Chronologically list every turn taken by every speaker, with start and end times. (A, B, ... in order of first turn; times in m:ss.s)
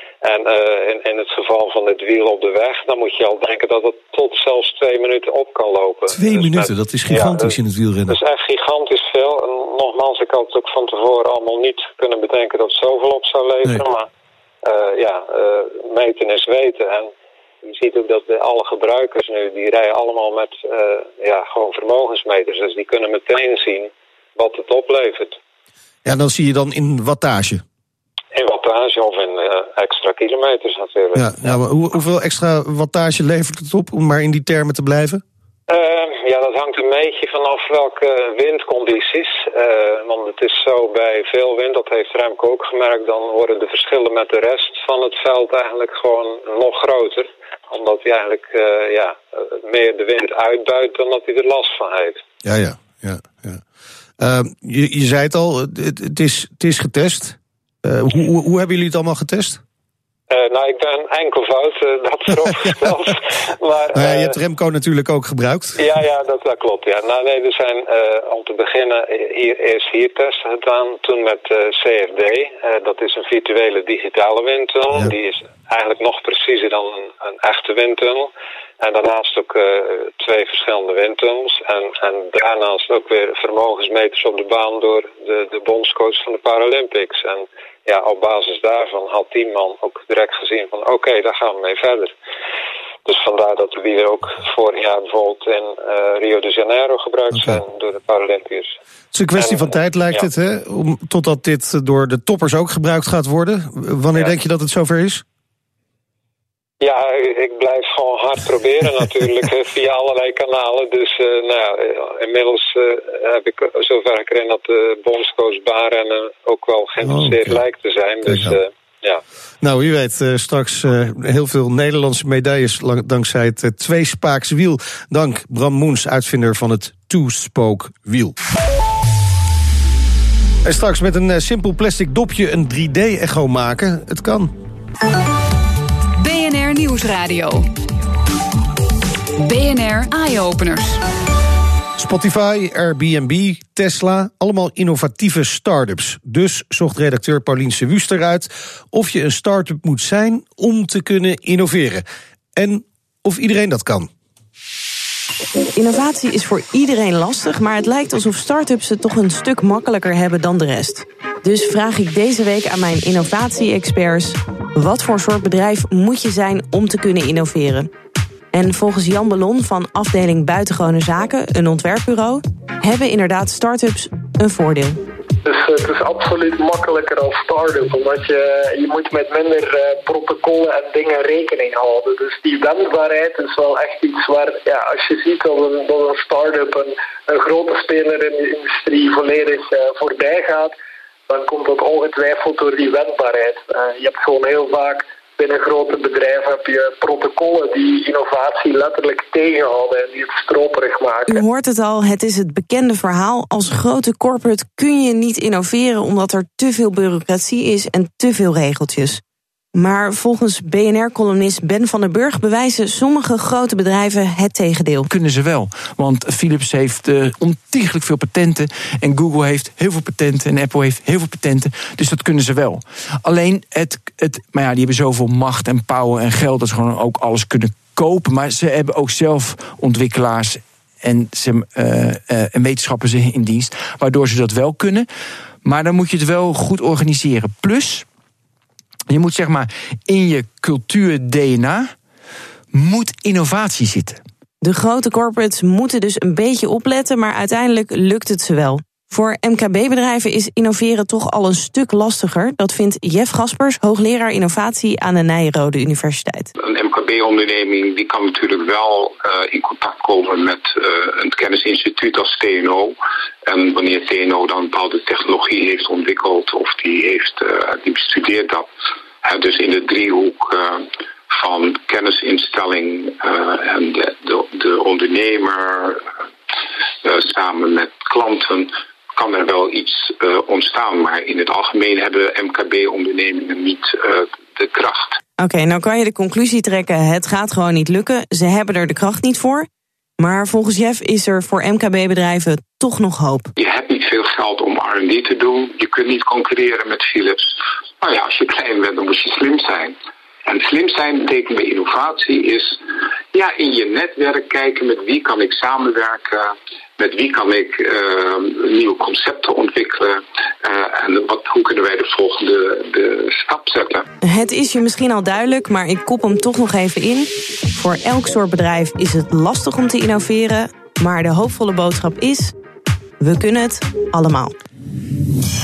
0:00.2-0:07.6 A
0:06.1-0:08.2 B
0:08.1-0:14.1 A
0:14.6-0:17.1 A
0:17.6-0:25.4 A
0:26.0-0:27.6 B
0:28.3-0:31.6 A
0:31.1-0:35.2 B
0:35.7-0:52.2 A
0:52.4-0:53.6 B
0:54.2-0:59.6 B
1:00.3-1:04.4 A
1:02.6-1:02.9 B
1:03.9-1:05.8 B
1:05.8-1:18.3 A
1:18.8-1:32.1 A
1:33.1-1:38.8 A
1:39.1-1:45.2 B
1:39.4-1:40.3 A
1:46.8-1:59.2 A
1:57.0-1:57.6 B
1:58.2-1:58.6 B
1:59.6-2:08.4 B
2:10.6-2:14.5 B
2:16.2-2:17.7 C
2:19.4-2:21.0 C
2:22.0-2:32.0 B
2:32.6-2:34.1 B
2:35.8-2:47.9 D
2:48.5-2:55.0 D
2:55.4-3:10.7 E
3:11.3-3:21.4 E
3:21.3-3:29.2 D
3:29.8-3:35.1 D
3:35.1-3:55.1 F
3:55.6-3:58.1 F
3:59.1-4:01.9 F
4:02.7-4:04.2 F
4:04.6-4:16.5 D
4:16.6-4:28.7 G
4:29.2-4:36.1 G
4:37.0-4:45.2 G
4:45.4-4:49.7 D
4:50.2-4:53.5 D
4:53.6-5:14.1 G
5:14.2-5:22.5 D
5:23.2-5:24.6 D